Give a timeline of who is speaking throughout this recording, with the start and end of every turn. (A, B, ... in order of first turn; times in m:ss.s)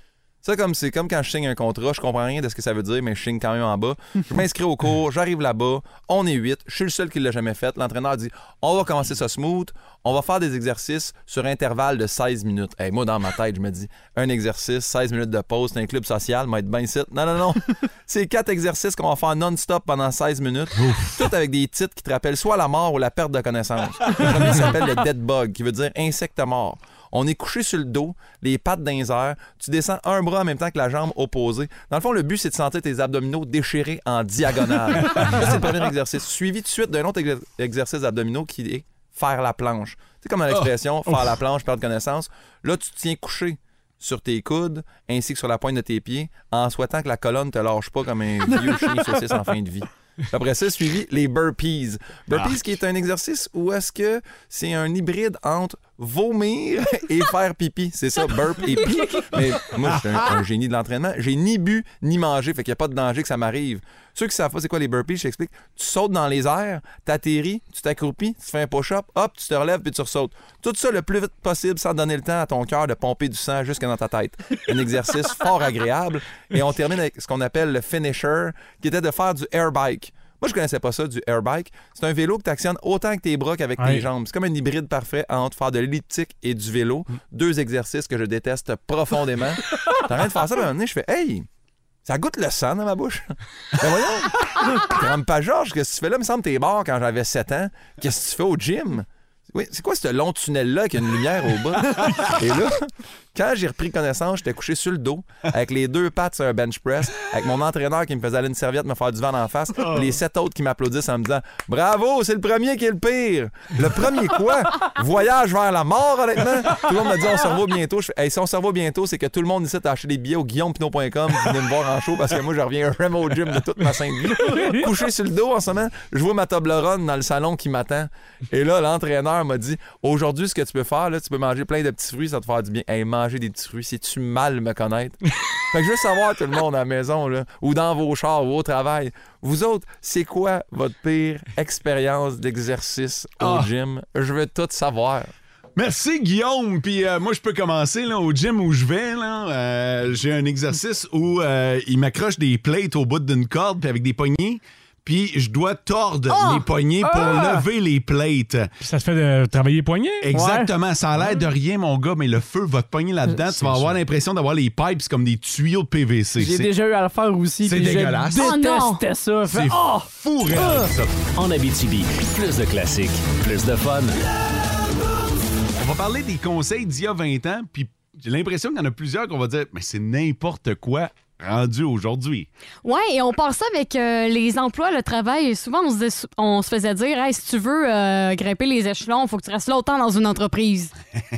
0:00.4-1:31.5 A
0:20.8-0:21.3 B
0:35.1-0:35.6 B
0:52.3-0:52.7 B
0:58.9-0:59.4 C
0:59.9-1:00.2 B
1:23.8-1:24.1 D
1:32.0-2:25.3 A
1:49.8-1:50.1 B
2:23.4-2:23.7 B
2:25.8-2:38.7 B
2:37.0-2:37.7 E
2:38.8-2:40.3 D
2:40.2-2:46.7 B
2:40.3-2:40.7 E
2:43.5-2:44.0 D
2:46.4-2:50.9 E
2:47.6-2:48.5 B
2:48.4-2:49.0 C
2:49.5-2:51.2 B
2:51.4-2:54.2 F
2:55.8-3:02.5 B
3:02.8-3:10.9 C